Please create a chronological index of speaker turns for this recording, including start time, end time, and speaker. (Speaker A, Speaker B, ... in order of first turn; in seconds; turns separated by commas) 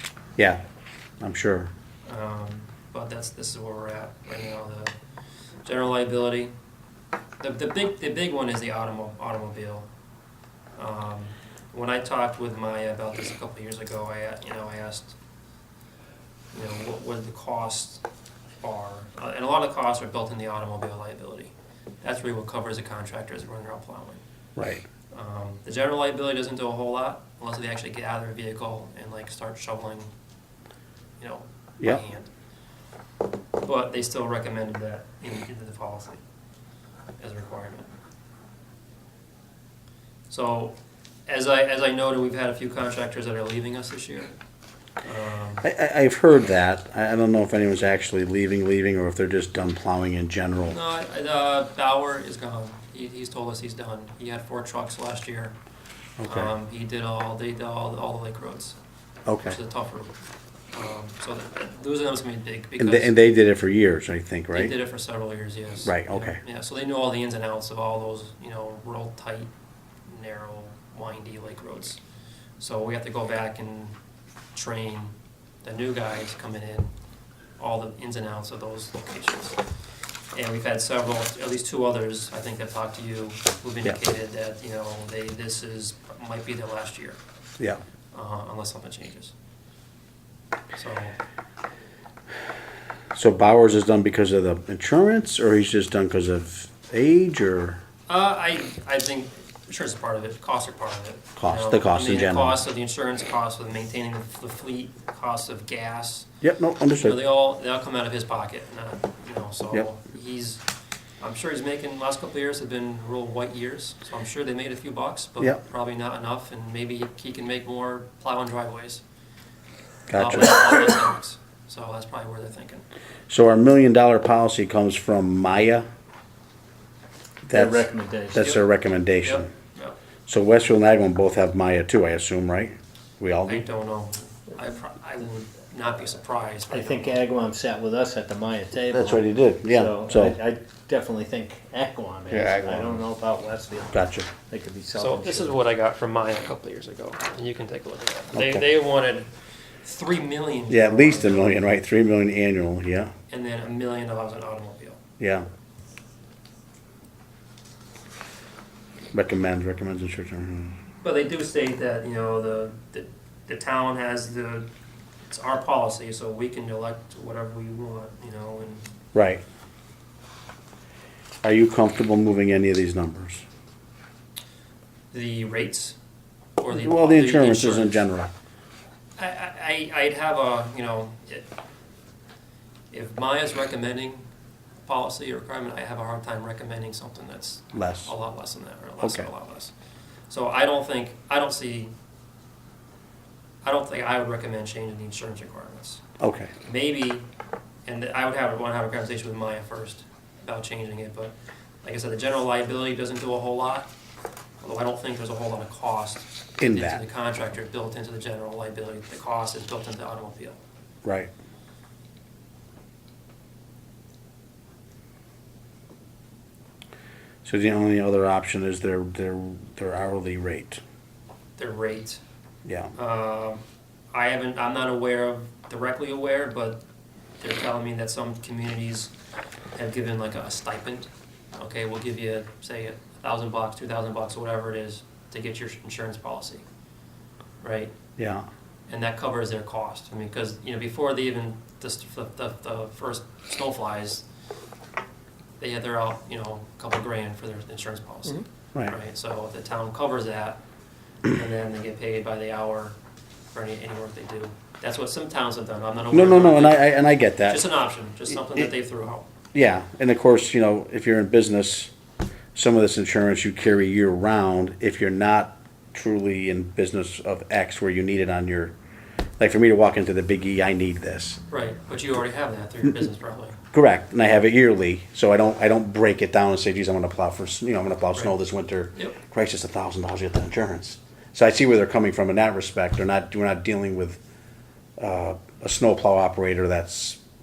Speaker A: 0.4-0.6, Speaker A: 1.2-1.7, Speaker B: 2.0-4.9, Speaker B: 5.6-6.5, Speaker B: 7.4-9.9, Speaker B: 10.8-15.2, Speaker B: 16.5-18.0, Speaker B: 18.6-24.2, Speaker A: 24.6-24.8, Speaker B: 25.1-30.1, Speaker B: 31.2-32.3, Speaker B: 33.6-36.2, Speaker B: 37.2-37.9, Speaker B: 40.3-40.8, Speaker B: 41.3-44.4, Speaker B: 45.0-45.6, Speaker A: 45.6-50.8, Speaker B: 50.7-55.5, Speaker A: 56.2-56.5, Speaker B: 56.2-58.8, Speaker A: 59.3-59.6, Speaker B: 59.4-60.1, Speaker B: 60.7-63.1, Speaker A: 62.8-64.8, Speaker B: 64.5-69.5, Speaker A: 65.8-66.4, Speaker B: 70.1-72.0, Speaker B: 72.6-73.9, Speaker B: 74.5-76.9, Speaker B: 77.6-79.6, Speaker B: 80.3-87.2, Speaker B: 88.1-89.3, Speaker B: 90.7-91.2, Speaker A: 93.1-97.8, Speaker B: 98.1-106.3, Speaker A: 101.4-102.6, Speaker A: 106.4-107.2, Speaker B: 107.0-110.6, Speaker B: 111.2-119.0, Speaker A: 120.1-121.0, Speaker B: 120.1-122.8, Speaker A: 123.3-125.8, Speaker A: 127.5-129.5, Speaker C: 127.5-128.5, Speaker B: 129.2-130.0, Speaker A: 130.3-133.6, Speaker B: 133.5-137.2, Speaker C: 136.7-145.6, Speaker A: 138.9-140.3, Speaker A: 142.3-142.9, Speaker A: 143.9-144.3, Speaker B: 144.9-149.3, Speaker A: 148.3-148.6, Speaker B: 149.8-151.7, Speaker A: 150.7-153.1, Speaker B: 153.3-155.0, Speaker A: 155.2-155.4, Speaker A: 159.1-160.7, Speaker B: 161.0-164.7, Speaker B: 165.2-168.9, Speaker A: 169.1-169.4, Speaker A: 171.4-173.4, Speaker B: 175.1-175.9, Speaker B: 176.6-178.0, Speaker A: 176.7-178.3, Speaker B: 179.2-181.4, Speaker B: 182.9-184.2, Speaker B: 184.8-189.7, Speaker A: 187.7-188.1, Speaker A: 189.0-189.3, Speaker B: 190.3-191.9, Speaker B: 193.6-196.0, Speaker A: 196.2-196.5, Speaker B: 196.6-197.3, Speaker B: 197.8-203.9, Speaker B: 204.6-210.6, Speaker A: 206.6-207.0, Speaker A: 211.0-211.3, Speaker A: 217.4-220.8, Speaker B: 221.6-222.2, Speaker A: 222.6-222.9, Speaker B: 222.9-223.6, Speaker B: 224.1-226.8, Speaker B: 227.4-229.1, Speaker B: 229.7-236.6, Speaker B: 237.6-237.9, Speaker A: 238.2-238.4, Speaker B: 238.9-244.2, Speaker B: 245.6-250.6, Speaker B: 251.3-252.9, Speaker B: 253.5-256.9, Speaker A: 256.1-257.6, Speaker B: 257.4-259.3, Speaker A: 259.5-261.9, Speaker A: 262.5-268.7, Speaker A: 269.4-271.4, Speaker B: 271.5-273.6, Speaker A: 273.7-284.2, Speaker B: 278.9-279.2, Speaker A: 285.0-287.2